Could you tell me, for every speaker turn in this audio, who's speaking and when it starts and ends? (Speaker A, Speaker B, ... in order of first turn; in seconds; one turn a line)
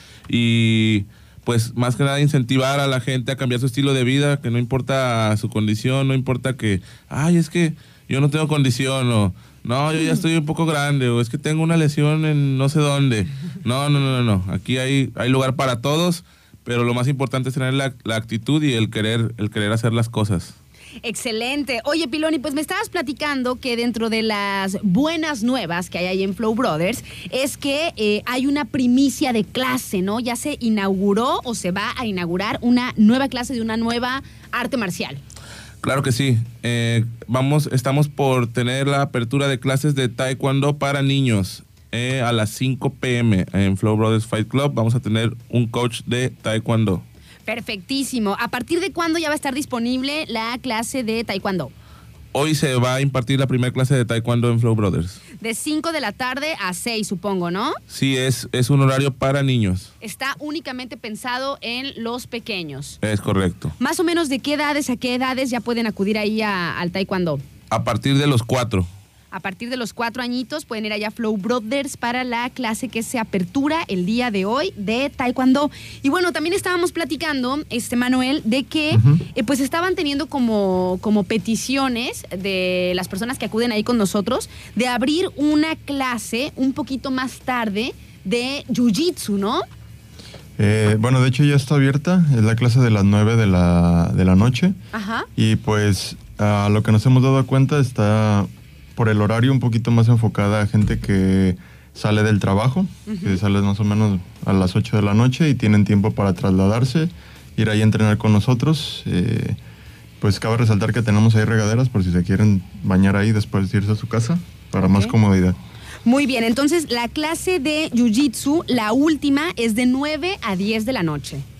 Speaker A: 0.3-20.5
Speaker B: 21.0-35.2
Speaker A: 35.8-47.0
Speaker B: 47.5-51.7
Speaker A: 52.3-55.2
Speaker B: 55.4-57.8
Speaker A: 57.9-59.9
Speaker B: 60.0-63.0
Speaker A: 63.0-63.7
Speaker B: 63.8-67.4
Speaker A: 67.7-68.9
Speaker B: 69.3-89.6
Speaker C: 78.9-79.2
Speaker C: 90.6-94.8
Speaker B: 94.9-95.3
Speaker C: 95.3-109.6
Speaker B: 103.1-103.4
Speaker C: 110.2-115.5
Speaker B: 114.8-115.1
Speaker B: 116.0-121.4